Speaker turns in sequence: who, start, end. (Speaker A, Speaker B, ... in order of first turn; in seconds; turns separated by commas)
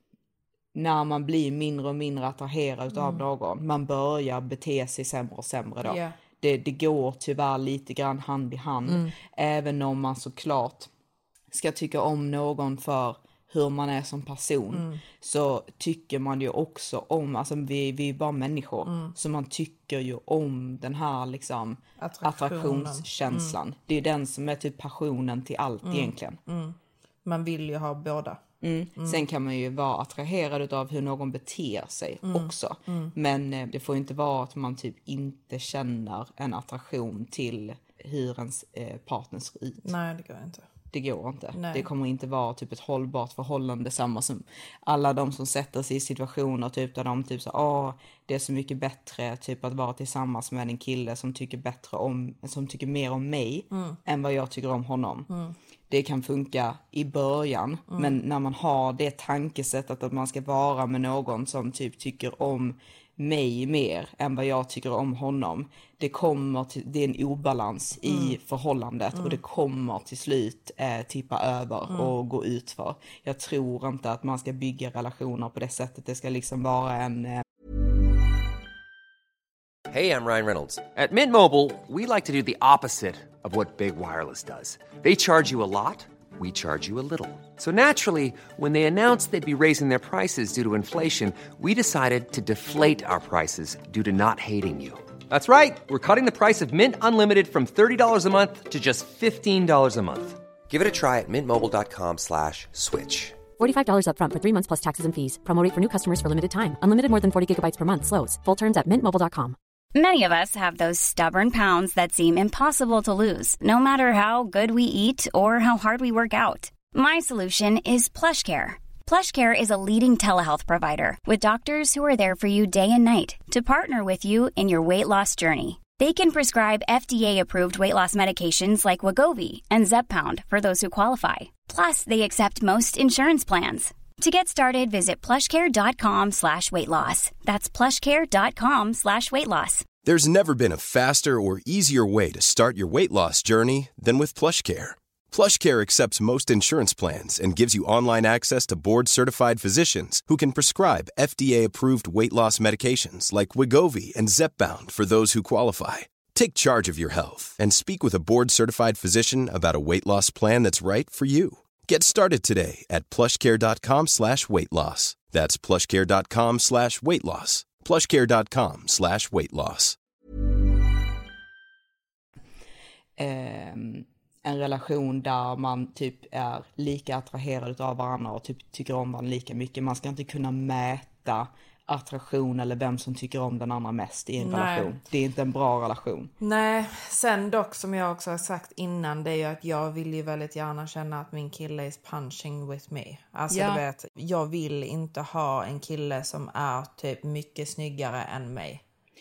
Speaker A: 0.7-10.9, Speaker B: 2.9-3.2, Speaker B: 5.8-6.1, Speaker B: 8.8-9.1, Speaker A: 11.5-26.4, Speaker B: 14.7-15.0, Speaker B: 18.8-19.1, Speaker B: 22.0-23.5, Speaker B: 25.8-28.4, Speaker A: 28.6-39.9, Speaker B: 29.0-29.2, Speaker B: 32.2-33.1, Speaker B: 39.8-40.7, Speaker A: 40.9-55.3, Speaker B: 41.5-41.8, Speaker B: 53.7-54.0, Speaker B: 55.3-55.5, Speaker A: 55.9-77.4, Speaker B: 57.9-58.2, Speaker B: 68.1-68.4, Speaker C: 79.9-103.4, Speaker D: 103.6-109.5, Speaker E: 109.9-139.9, Speaker F: 140.0-169.9, Speaker A: 173.2-186.3, Speaker B: 184.4-184.9, Speaker B: 186.4-198.8, Speaker A: 193.5-193.8